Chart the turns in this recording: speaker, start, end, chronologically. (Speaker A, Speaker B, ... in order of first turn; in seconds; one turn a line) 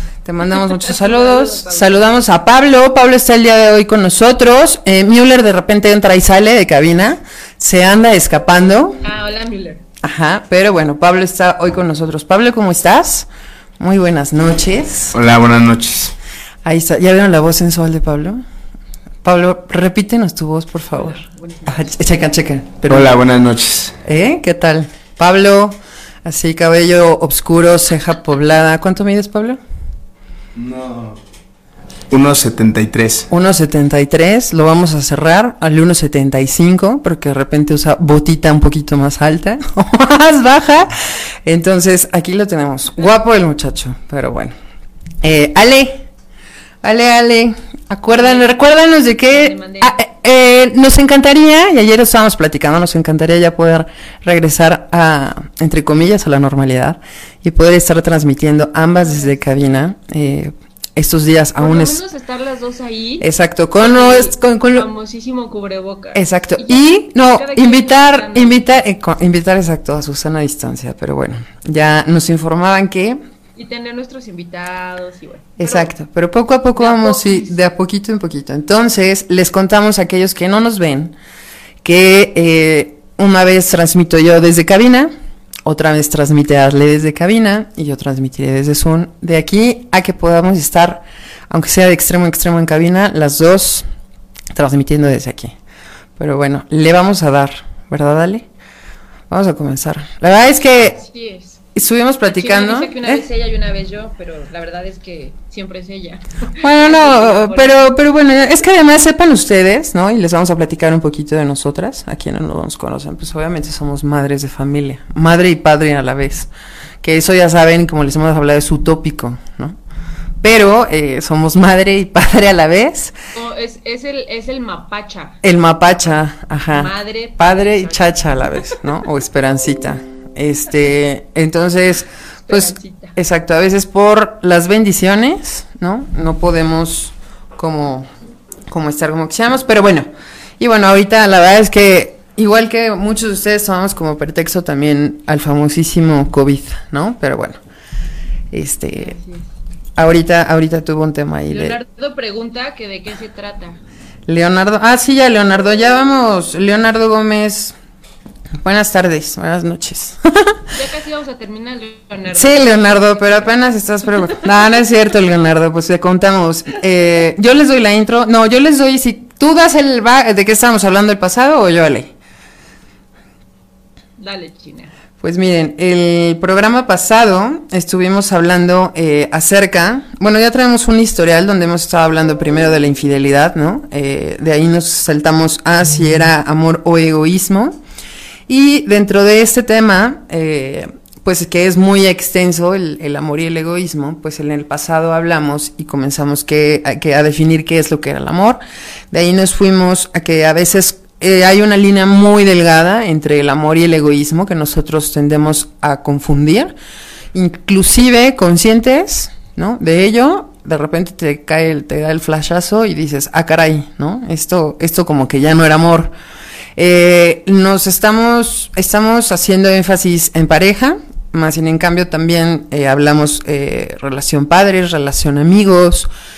Speaker A: 0.2-9.0
Speaker B: 0.7-2.0
Speaker B: 9.0-9.8
Speaker A: 10.0-15.2
Speaker C: 15.1-16.1
Speaker A: 16.6-18.4
Speaker A: 19.2-23.2
Speaker B: 20.9-21.9
Speaker C: 22.8-24.0
Speaker A: 24.0-29.6
Speaker C: 30.6-31.2
Speaker C: 32.1-33.3
Speaker A: 33.3-40.9
Speaker A: 41.4-44.5
Speaker A: 45.2-46.0
Speaker A: 46.8-62.0
Speaker B: 48.1-48.5
Speaker B: 49.2-50.0
Speaker B: 59.0-59.5
Speaker B: 61.5-63.3
Speaker A: 63.2-64.9
Speaker B: 63.8-68.7
Speaker A: 66.1-73.2
Speaker B: 73.5-75.9
Speaker A: 75.6-81.2
Speaker B: 76.8-77.6
Speaker A: 81.8-85.1
Speaker A: 85.6-93.8
Speaker A: 94.5-95.5
Speaker A: 96.2-98.5
Speaker A: 99.3-101.0
Speaker B: 100.9-101.6
Speaker A: 101.7-103.2
Speaker B: 102.2-107.8
Speaker A: 106.6-116.5
Speaker A: 117.0-119.8
Speaker A: 120.4-123.1
Speaker B: 123.3-125.4
Speaker A: 125.4-138.1
Speaker B: 126.7-128.8
Speaker B: 132.5-133.2
Speaker A: 138.7-140.1
Speaker A: 140.6-147.6
Speaker A: 148.5-149.2
Speaker B: 149.0-149.5
Speaker A: 149.9-151.8
Speaker B: 151.5-153.8
Speaker A: 154.3-157.8
Speaker A: 158.6-160.6
Speaker B: 160.7-163.5
Speaker A: 162.3-172.1
Speaker B: 174.2-174.9
Speaker A: 175.2-187.8
Speaker A: 188.5-206.7
Speaker A: 207.3-216.1
Speaker A: 216.8-226.1